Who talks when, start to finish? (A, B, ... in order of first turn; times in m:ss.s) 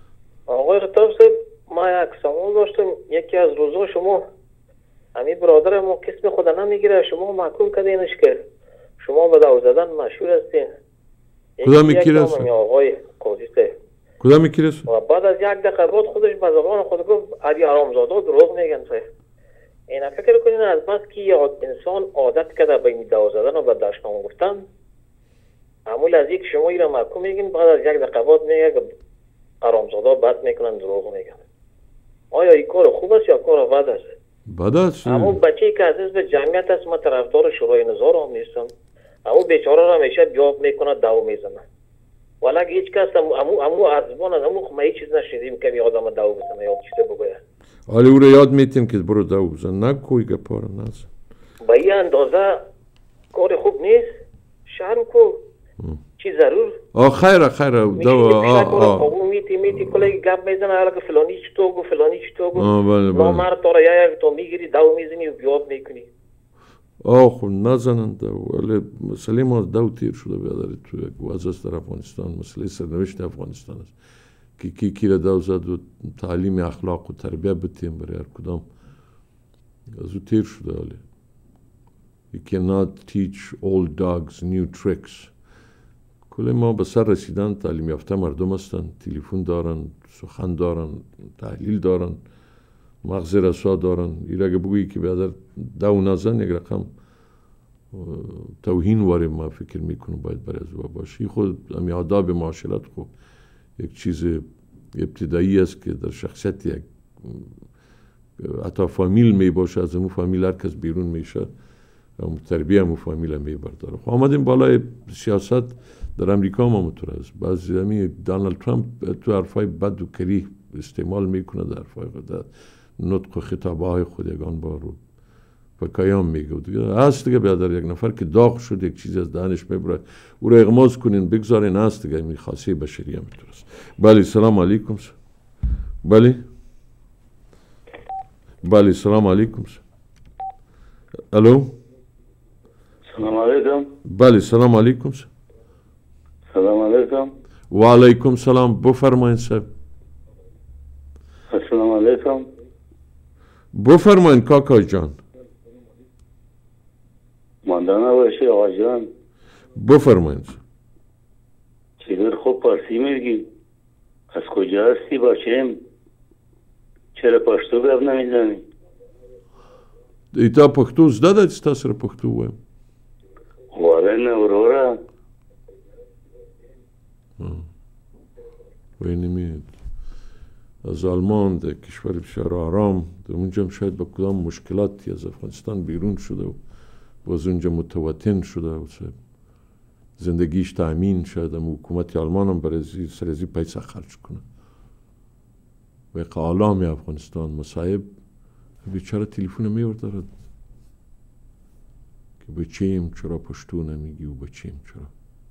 0:00.5-0:04.2 A
0:05.2-0:08.4 A
0:09.0-0:10.7 A
0:11.6-0:13.7 A
0:11.6-0:12.5 B
0:14.2-0:14.9 B
0:14.9-0:19.1 A
0:19.9-0:24.6 A
0:25.9-0:28.8 A
0:29.6-0:31.4 A
0:32.3-0:34.1 A
0:34.5-0:35.4 B
0:35.0-0:38.7 A
0:39.3-0:41.6 A
0:42.4-0:47.4 A
0:47.9-0:51.1 B
0:51.6-0:52.6 A
0:53.3-0:54.1 A
0:54.7-0:55.4 A
0:56.2-0:56.8 A
0:57.0-0:59.1 B
0:58.0-1:06.1 A
0:59.8-1:00.1 B
1:02.6-1:03.5 B
1:07.0-1:13.9 B
1:14.6-1:18.6 B
1:19.9-1:21.0 B
1:22.3-1:25.3 B
1:26.3-1:32.2 B
1:33.0-1:36.9 B
1:37.9-1:43.1 B
1:43.8-1:44.4 B
1:44.9-1:47.5 B
1:48.4-1:51.5 B
1:52.2-2:05.0 B
2:05.8-2:15.1 B
2:16.0-2:16.4 B
2:18.6-2:19.8 B
2:21.3-2:21.7 B
2:23.1-2:23.9 C
2:24.1-2:25.3 B
2:26.5-2:27.3 C
2:27.7-2:29.7 B
2:31.5-2:32.5 C
2:33.7-2:35.2 B
2:37.6-2:39.1 C
2:39.8-2:40.6 B
2:42.0-2:43.4 C
2:44.3-2:45.8 C
2:47.2-2:48.6 C
2:50.3-2:52.6 B
2:53.7-2:55.0 C
2:57.4-2:57.6 B
2:59.0-2:59.8 B
3:00.8-3:06.6 B
3:07.2-3:09.2 B
3:10.2-3:14.4 B
3:16.1-3:18.1 B
3:18.8-3:20.3 B
3:22.4-3:25.1 B